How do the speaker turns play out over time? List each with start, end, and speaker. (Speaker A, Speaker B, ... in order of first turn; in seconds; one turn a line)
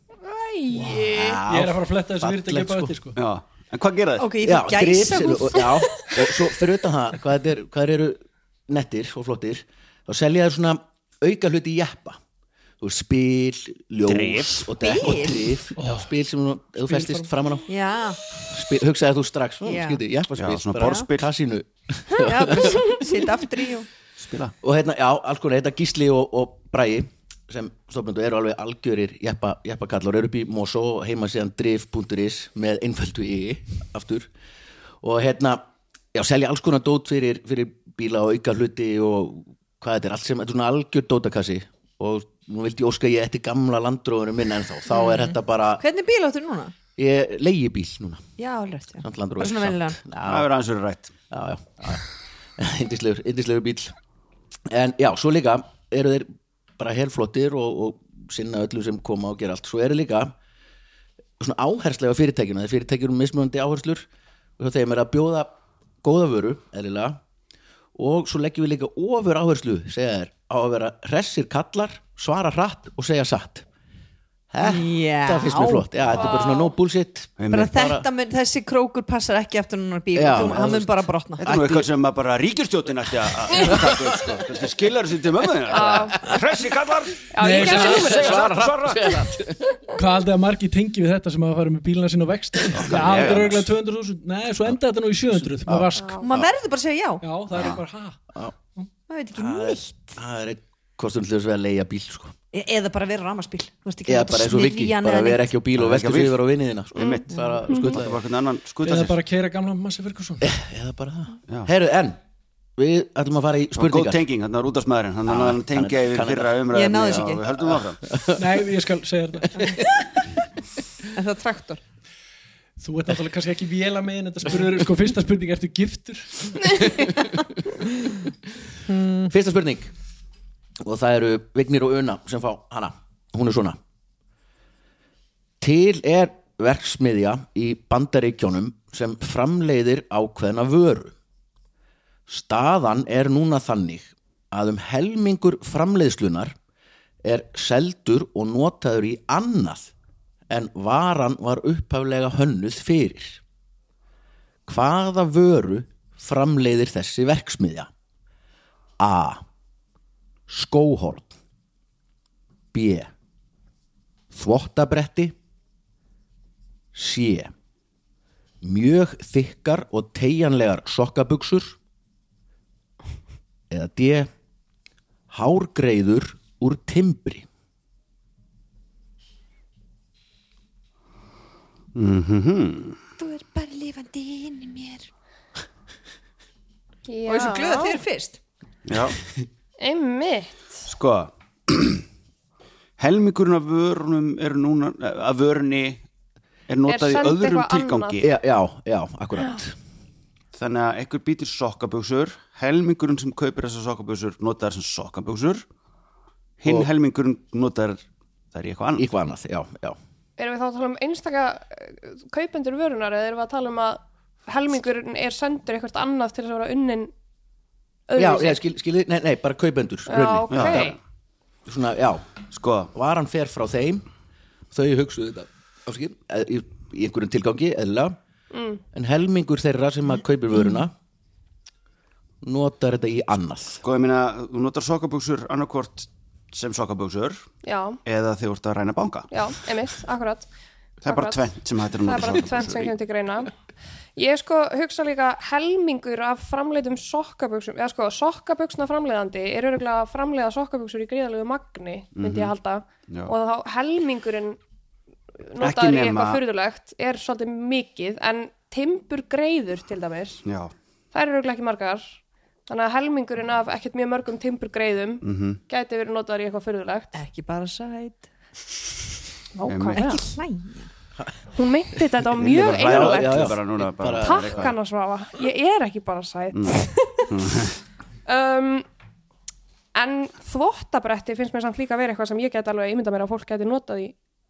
Speaker A: 0.3-1.4
Speaker B: 0.7-1.4
Speaker C: 0.8-3.2
Speaker D: 0.9-2.9
Speaker E: 3.1-4.3
Speaker B: 4.2-6.5
Speaker D: 4.4-12.2
Speaker D: 12.8-17.7
Speaker E: 14.1-14.7
Speaker B: 14.8-15.6
Speaker C: 15.8-16.1
Speaker C: 16.9-17.3
Speaker B: 17.7-18.2
Speaker D: 18.3-23.2
Speaker B: 19.6-20.0
Speaker E: 20.4-21.3
Speaker B: 22.1-23.9
Speaker E: 24.2-24.5
Speaker D: 24.6-34.3
Speaker D: 35.0-45.8
Speaker B: 44.9-46.7
Speaker D: 47.0-48.2
Speaker B: 48.4-50.0
Speaker D: 49.0-50.5
Speaker E: 50.2-51.1
Speaker D: 51.3-52.0
Speaker D: 52.6-53.9
Speaker D: 54.7-56.3
Speaker D: 56.8-60.3
Speaker D: 61.4-64.1
Speaker D: 64.6-67.2
Speaker D: 67.9-73.7
Speaker D: 74.5-78.1
Speaker B: 74.6-75.9
Speaker A: 76.1-76.7
Speaker E: 77.4-77.7
Speaker B: 77.5-81.5
Speaker D: 80.1-81.9
Speaker E: 80.3-80.7
Speaker E: 81.4-89.2
Speaker D: 83.5-84.3
Speaker A: 85.7-86.3
Speaker A: 87.3-88.5
Speaker C: 87.4-88.3
Speaker D: 87.8-89.8
Speaker C: 89.9-96.2
Speaker E: 92.7-93.6
Speaker D: 92.9-93.4
Speaker D: 95.6-96.5
Speaker A: 96.0-96.3
Speaker B: 96.2-97.2
Speaker C: 97.2-98.2
Speaker E: 97.5-97.8
Speaker B: 99.1-100.2
Speaker D: 99.3-102.3
Speaker B: 102.5-105.5
Speaker D: 104.0-108.2
Speaker E: 105.7-106.4
Speaker E: 106.9-109.2
Speaker A: 107.0-108.0
Speaker B: 107.3-107.6
Speaker C: 108.8-110.5
Speaker D: 110.4-112.2
Speaker D: 112.8-114.2
Speaker E: 113.8-118.0
Speaker D: 115.2-116.6
Speaker B: 116.7-117.5
Speaker D: 117.2-118.4
Speaker C: 118.3-119.8
Speaker B: 121.1-121.8
Speaker C: 122.8-127.1
Speaker B: 128.8-129.3
Speaker D: 129.3-129.9
Speaker D: 130.8-133.8
Speaker D: 135.6-141.2
Speaker D: 142.3-146.5
Speaker D: 147.2-149.9
Speaker D: 150.5-153.4
Speaker D: 154.7-157.9
Speaker D: 159.0-159.4
Speaker D: 160.5-161.3
Speaker D: 162.7-163.1
Speaker D: 164.3-165.3
Speaker D: 166.9-167.5
Speaker D: 168.6-171.8
Speaker D: 173.7-174.3
Speaker D: 175.3-177.4
Speaker E: 181.9-183.0
Speaker B: 183.2-185.1
Speaker A: 187.1-188.0
Speaker B: 187.3-188.4
Speaker E: 188.9-189.2
Speaker A: 189.8-190.8
Speaker E: 190.9-192.0
Speaker E: 193.0-196.0
Speaker E: 196.7-198.3
Speaker A: 196.9-198.2
Speaker D: 198.2-199.8
Speaker E: 200.5-205.6
Speaker E: 206.6-209.1
Speaker D: 208.9-210.0
Speaker A: 210.4-217.1
Speaker A: 218.1-218.6
Speaker D: 218.2-220.9
Speaker A: 220.1-220.9
Speaker E: 220.5-221.0
Speaker D: 221.7-222.3
Speaker E: 222.5-222.9
Speaker D: 222.9-224.1
Speaker D: 224.7-228.2
Speaker A: 228.5-228.8
Speaker D: 228.9-230.9
Speaker D: 232.4-233.8
Speaker E: 233.8-237.4
Speaker A: 237.6-238.0
Speaker E: 238.0-239.3
Speaker A: 239.3-240.5
Speaker E: 241.0-242.9
Speaker A: 241.0-241.5
Speaker A: 242.0-243.5
Speaker A: 244.2-254.6
Speaker E: 252.1-252.5
Speaker A: 255.4-260.4
Speaker E: 255.6-256.4
Speaker E: 260.4-260.7
Speaker A: 261.1-267.1
Speaker E: 265.2-265.6
Speaker B: 267.1-268.2
Speaker A: 269.5-270.2
Speaker E: 269.7-270.2
Speaker B: 270.0-270.9
Speaker A: 271.5-273.5
Speaker E: 272.3-274.8
Speaker D: 272.7-274.7
Speaker A: 274.2-277.3
Speaker E: 276.5-277.8
Speaker A: 278.3-278.9
Speaker A: 279.9-284.1